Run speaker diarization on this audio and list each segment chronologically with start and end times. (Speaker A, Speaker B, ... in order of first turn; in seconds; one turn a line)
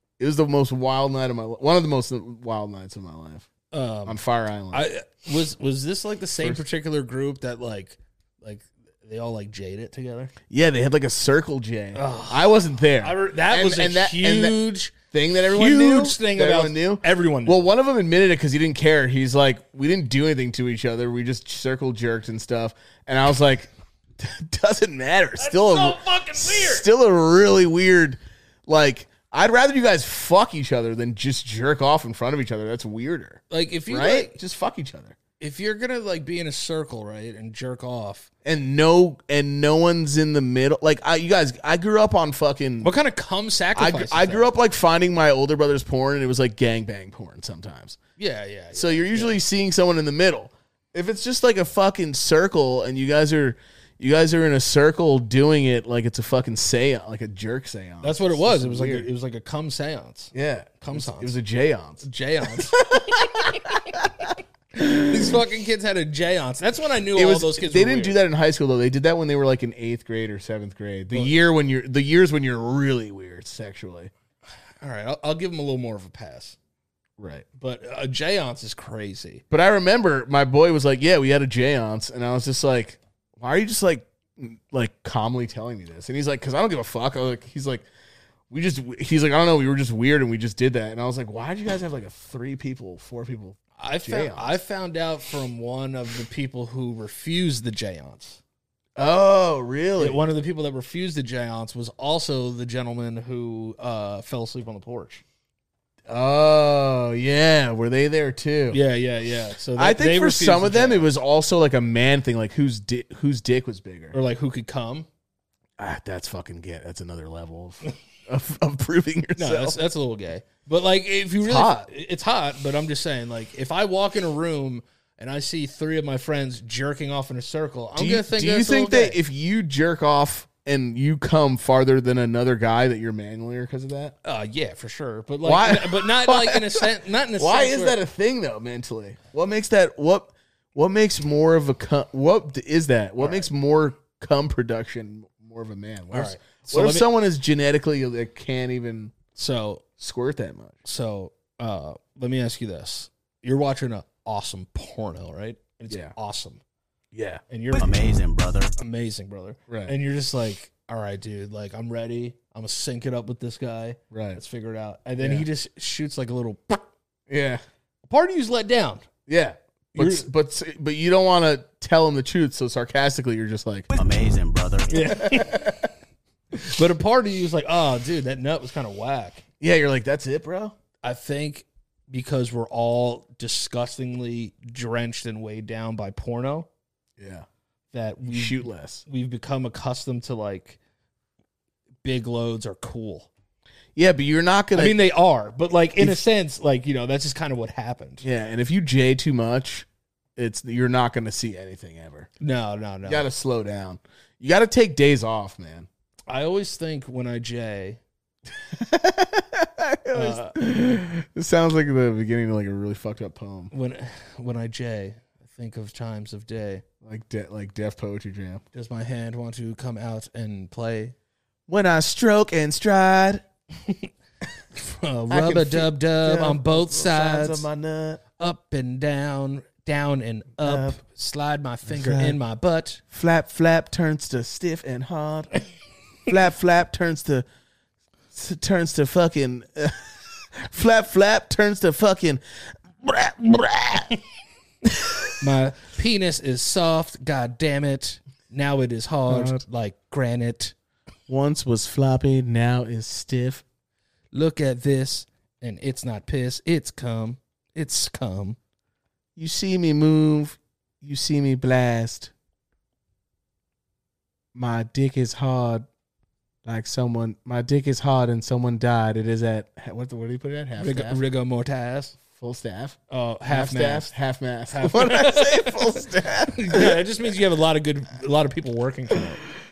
Speaker A: 0.2-3.5
Speaker B: 3.7-4.2
Speaker A: 4.1-4.8
Speaker B: 4.7-10.3
Speaker A: 10.5-35.2
Speaker B: 11.9-14.9
Speaker B: 15.5-17.6
Speaker B: 25.4-26.9
Speaker B: 33.5-34.4
Speaker B: 35.4-38.3
Speaker A: 38.5-42.9
Speaker B: 42.8-44.5
Speaker A: 43.8-48.0
Speaker B: 48.2-49.4
Speaker A: 48.8-59.1
Speaker B: 58.0-61.3
Speaker A: 60.3-65.4
Speaker B: 62.0-63.7
Speaker B: 64.8-68.2
Speaker A: 67.1-74.1
Speaker B: 74.8-76.6
Speaker A: 77.2-77.5
Speaker B: 77.6-79.4
Speaker A: 79.5-87.9
Speaker A: 88.5-94.6
Speaker B: 93.8-98.4
Speaker A: 99.0-100.2
Speaker B: 100.0-105.2
Speaker A: 106.1-108.8
Speaker B: 108.7-111.1
Speaker A: 109.8-114.2
Speaker B: 114.1-115.1
Speaker A: 115.8-119.8
Speaker B: 119.4-129.2
Speaker A: 121.4-121.9
Speaker A: 128.0-134.2
Speaker B: 134.2-138.0
Speaker A: 135.4-149.1
Speaker B: 143.2-143.5
Speaker B: 146.1-147.1
Speaker B: 149.4-149.8
Speaker A: 150.0-150.8
Speaker B: 150.8-156.6
Speaker A: 157.1-157.4
Speaker B: 157.5-157.9
Speaker C: 157.8-158.7
Speaker B: 158.8-166.8
Speaker A: 159.7-159.9
Speaker A: 164.1-164.4
Speaker A: 165.2-165.5
Speaker A: 167.3-167.6
Speaker B: 168.1-169.1
Speaker A: 169.3-173.9
Speaker B: 169.9-170.3
Speaker C: 173.9-175.0
Speaker B: 174.9-175.9
Speaker A: 175.0-175.8
Speaker B: 176.6-179.4
Speaker A: 179.6-180.8
Speaker B: 181.0-186.7
Speaker A: 187.2-187.5
Speaker B: 187.9-190.8
Speaker A: 188.3-189.0
Speaker B: 192.0-193.3
Speaker A: 193.9-194.9
Speaker B: 194.7-198.2
Speaker A: 196.0-196.2
Speaker A: 198.2-202.3
Speaker B: 202.4-203.3
Speaker A: 203.1-205.9
Speaker B: 206.3-208.0
Speaker A: 208.6-213.7
Speaker B: 210.1-210.6
Speaker B: 213.7-216.8
Speaker A: 217.0-218.6
Speaker B: 218.7-221.1
Speaker A: 221.7-223.4
Speaker B: 223.8-224.1
Speaker B: 224.8-227.7
Speaker A: 225.3-228.2
Speaker B: 228.4-233.0
Speaker A: 230.6-231.0
Speaker A: 231.9-232.4
Speaker A: 233.1-235.5
Speaker A: 236.3-237.4
Speaker A: 238.3-242.4
Speaker A: 243.0-244.2
Speaker B: 245.4-250.7
Speaker A: 249.3-249.6
Speaker A: 251.3-253.6
Speaker B: 254.3-258.6
Speaker A: 259.4-262.3
Speaker A: 264.5-265.9
Speaker A: 266.6-271.2
Speaker B: 270.8-272.2
Speaker A: 272.3-277.0
Speaker B: 273.1-274.1
Speaker B: 274.7-276.0
Speaker B: 276.5-279.4